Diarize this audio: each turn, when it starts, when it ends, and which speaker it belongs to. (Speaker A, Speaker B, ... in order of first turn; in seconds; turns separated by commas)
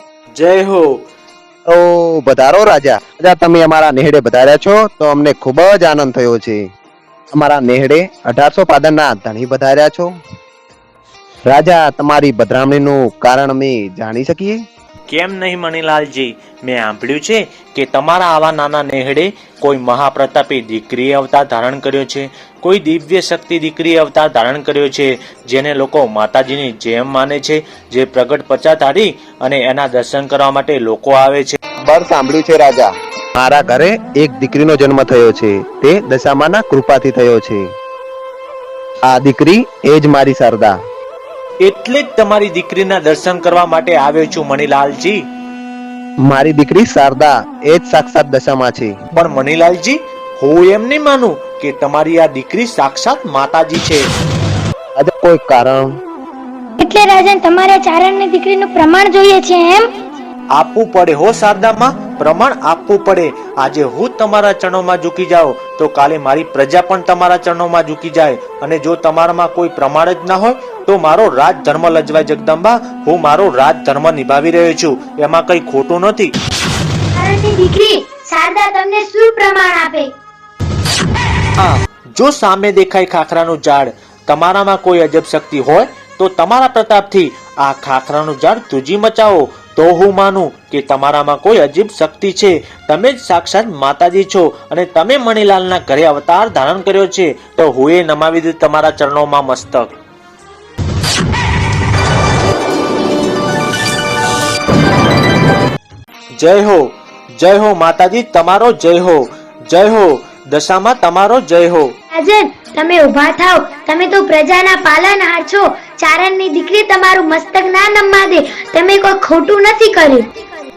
Speaker A: 0.3-1.1, Speaker B: 1.6-6.6, Speaker B: 7.3-10.1, Speaker B: 11.5-14.6, Speaker A: 15.1-31.6, Speaker B: 31.8-37.6, Speaker B: 39.1-40.7, Speaker A: 41.6-45.2, Speaker B: 46.2-49.0, Speaker A: 49.1-54.1, Speaker B: 55.0-55.9, Speaker C: 56.8-59.9, Speaker A: 60.5-76.3, Speaker C: 77.1-80.1, Speaker A: 81.6-99.9, Speaker A: 106.4-111.9, Speaker C: 112.1-120.3